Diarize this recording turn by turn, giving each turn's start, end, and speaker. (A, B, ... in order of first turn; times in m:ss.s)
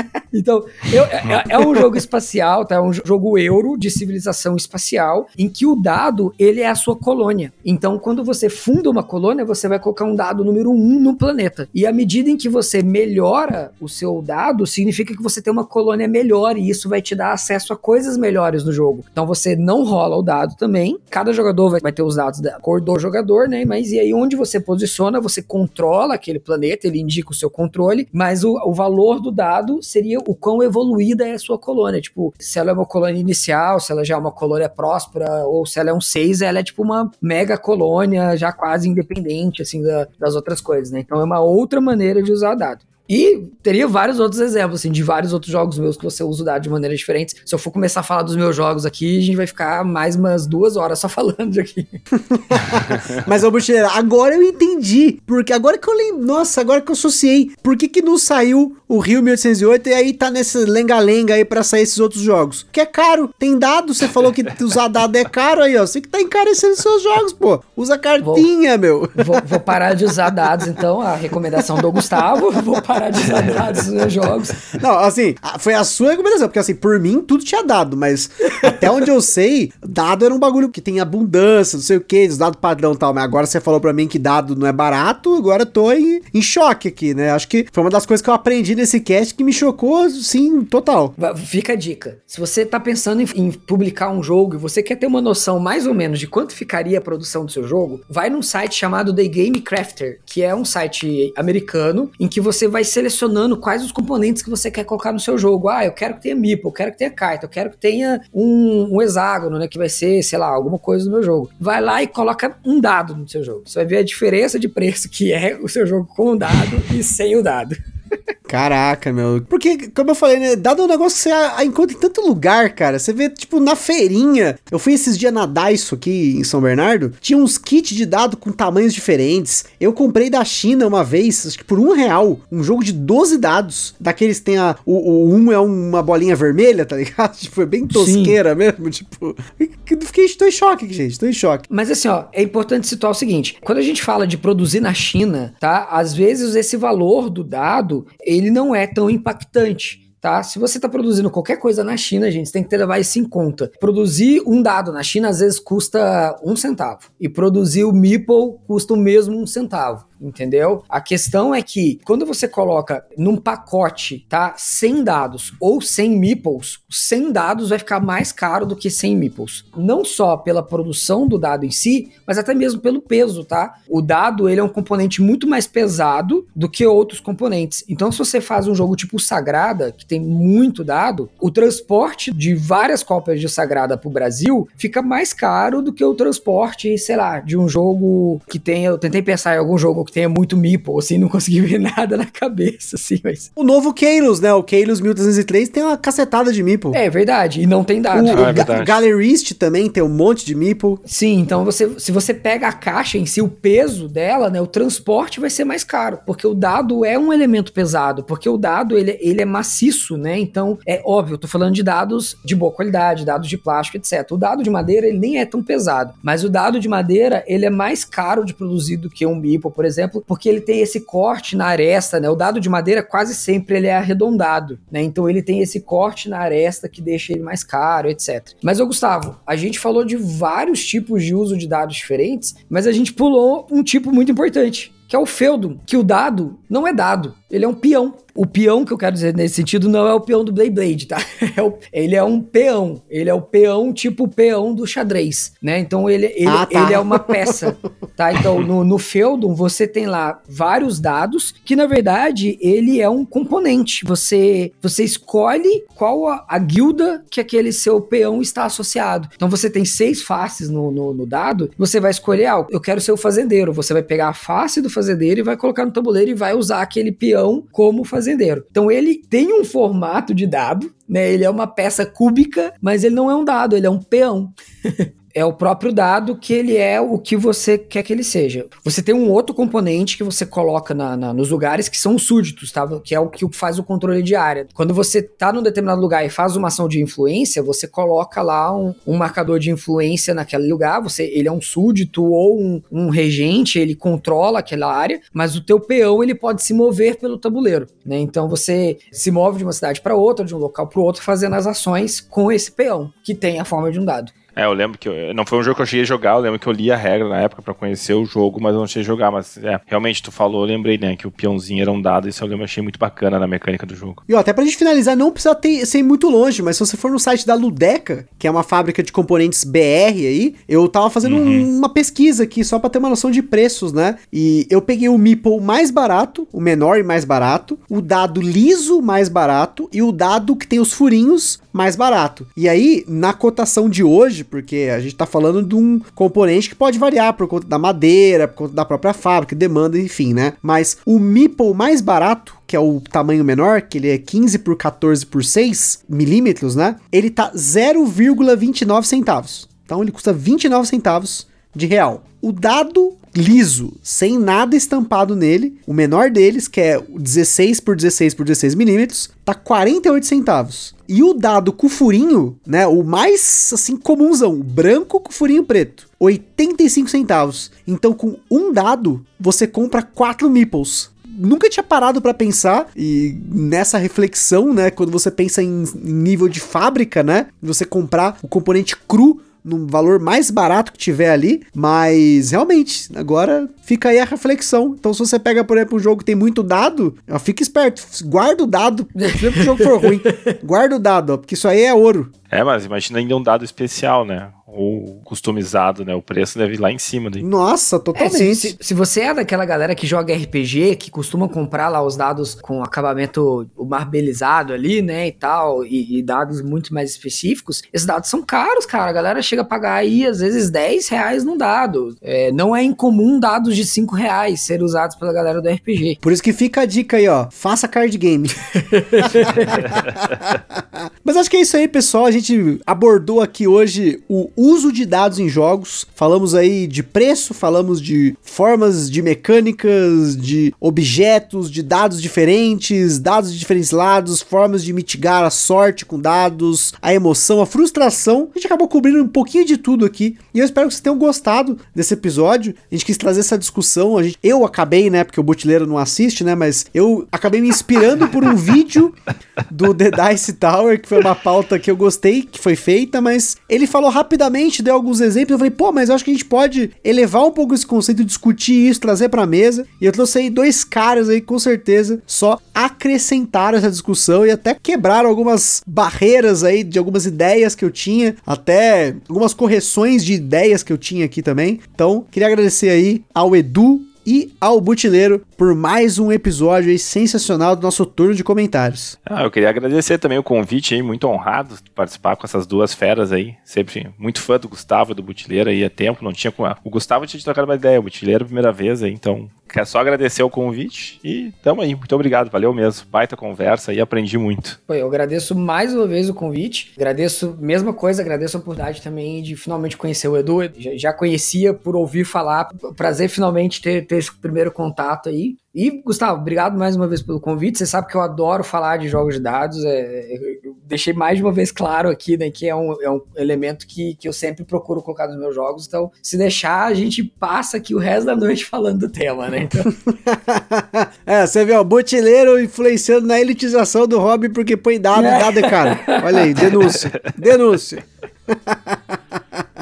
0:00.3-0:52.0 A
0:52.3-1:09.7 B
1:08.2-1:08.5 A
1:09.2-1:14.6 A
1:14.7-1:31.1 B
1:31.2-1:57.8 A
1:58.5-2:21.6 B
2:17.9-2:18.4 A
2:21.7-3:13.5 A
3:13.6-3:17.0 B
3:16.9-3:18.7 A
3:18.1-3:21.0 B
3:18.3-3:19.0 C
3:21.0-5:04.3 A
4:06.4-4:07.8 B
5:04.6-5:14.2 C
5:14.3-6:32.3 B
5:21.2-5:21.7 C
6:29.2-6:30.5 A
6:32.5-6:37.5 C
6:37.4-6:38.8 B
6:38.1-6:56.2 A
6:56.2-6:58.6 B
6:58.8-6:59.8 A
6:59.1-7:29.2 B
7:29.7-7:59.1 B
7:59.2-8:14.8 C
8:14.9-8:39.9 A
8:40.0-8:49.6 B
8:45.1-8:46.6 A